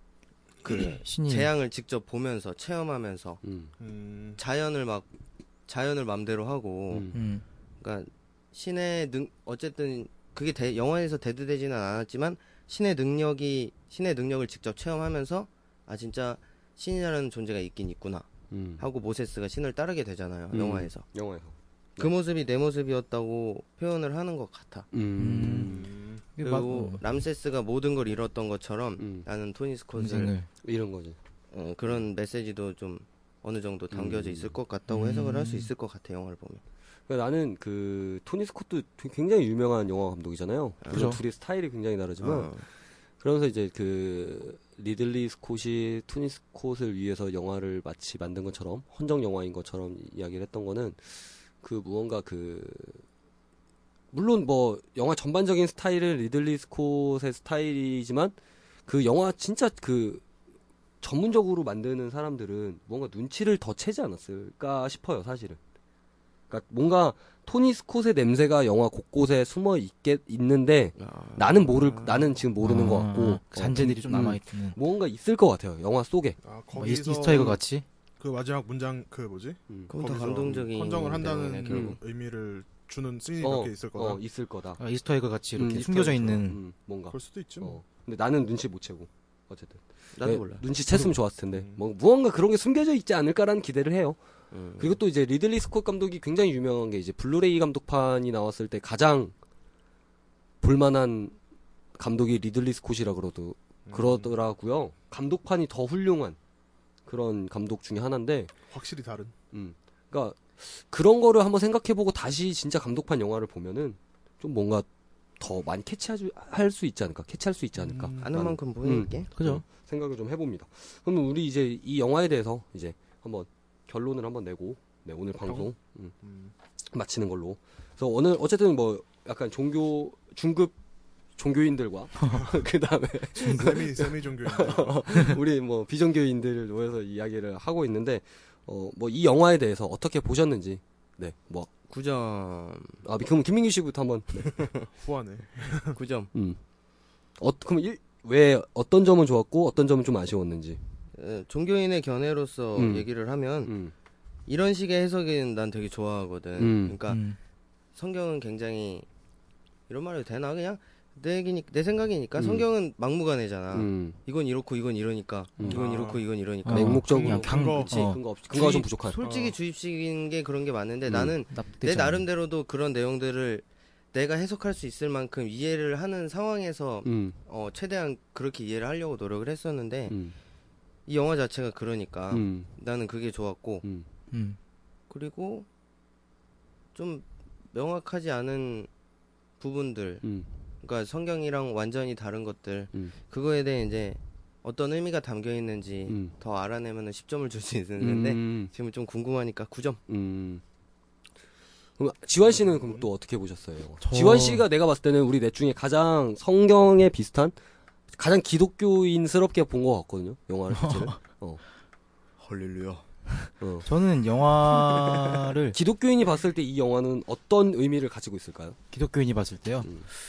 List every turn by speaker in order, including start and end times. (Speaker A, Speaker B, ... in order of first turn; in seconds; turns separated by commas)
Speaker A: 0.6-3.4, Speaker B: 1.0-1.5, Speaker C: 3.4-3.7, Speaker D: 3.8-4.4, Speaker A: 4.4-5.1, Speaker A: 5.7-7.2, Speaker C: 6.9-7.2, Speaker B: 7.1-7.4, Speaker A: 7.8-18.3, Speaker C: 18.5-18.8, Speaker A: 18.8-21.1, Speaker C: 20.5-22.1, Speaker A: 22.0-24.9, Speaker C: 24.9-25.9, Speaker B: 25.2-25.8, Speaker D: 25.6-26.2, Speaker B: 26.4-27.0, Speaker A: 26.4-30.3, Speaker C: 29.0-29.3, Speaker B: 30.0-30.5, Speaker C: 30.6-31.2, Speaker A: 31.5-36.6, Speaker C: 33.9-34.5, Speaker B: 34.9-35.7, Speaker C: 37.1-42.6, Speaker A: 40.8-41.1, Speaker B: 40.9-41.2, Speaker A: 42.2-42.6, Speaker C: 43.2-53.0, Speaker C: 54.1-58.3, Speaker C: 58.9-60.2, Speaker C: 61.0-65.6, Speaker C: 66.5-76.4, Speaker A: 71.0-72.3, Speaker B: 72.6-74.8, Speaker D: 76.4-77.6, Speaker B: 76.8-77.8, Speaker D: 78.2-84.2, Speaker A: 79.9-82.0, Speaker C: 81.7-82.0, Speaker C: 83.4-84.8, Speaker B: 84.8-86.6, Speaker C: 85.5-94.2, Speaker D: 87.1-87.8, Speaker A: 90.2-90.7, Speaker D: 91.5-91.8, Speaker A: 94.5-95.0, Speaker C: 94.8-99.3, Speaker C: 100.6-101.3, Speaker C: 102.0-106.4, Speaker D: 103.9-104.3, Speaker C: 107.1-108.5, Speaker D: 108.7-109.3, Speaker C: 109.5-114.9, Speaker C: 115.4-126.1, Speaker D: 117.8-118.5, Speaker A: 118.2-119.3, Speaker B: 119.4-119.6, Speaker D: 126.2-126.5, Speaker C: 126.9-130.7, Speaker C: 131.3-141.7, Speaker D: 133.3-135.3, Speaker A: 141.9-143.0, Speaker C: 143.0-144.7, Speaker A: 144.6-144.8, Speaker D: 144.9-146.0, Speaker A: 145.9-146.3, Speaker C: 147.4-150.8, Speaker A: 151.1-153.7, Speaker C: 152.8-153.1, Speaker C: 153.6-153.9, Speaker A: 154.5-157.2, Speaker C: 156.6-157.0, Speaker B: 157.1-157.4, Speaker A: 157.9-159.1, Speaker A: 159.9-167.1, Speaker C: 162.4-162.7, Speaker C: 163.7-164.2, Speaker C: 165.6-165.8, Speaker D: 165.6-166.2, Speaker B: 166.6-168.2, Speaker C: 166.7-169.2, Speaker D: 167.0-168.1, Speaker A: 168.5-180.2, Speaker D: 169.2-169.6, Speaker C: 171.1-171.3, Speaker B: 171.5-172.2, Speaker C: 177.0-177.4, Speaker C: 180.1-180.3, Speaker A: 181.1-183.8, Speaker C: 182.3-182.7, Speaker B: 184.3-184.6, Speaker A: 185.1-185.7, Speaker A: 186.9-188.9, Speaker A: 189.6-190.2, Speaker C: 190.2-190.5, Speaker A: 190.8-200.0, Speaker C: 196.1-196.3, Speaker C: 198.0-198.7, Speaker C: 200.1-200.6, Speaker C: 202.0-207.5, Speaker B: 204.0-204.6, Speaker C: 208.1-211.6, Speaker B: 210.7-211.2, Speaker A: 212.4-213.0, Speaker C: 213.6-213.9, Speaker B: 213.8-215.8, Speaker A: 214.7-215.5, Speaker C: 215.7-218.8, Speaker B: 218.9-219.9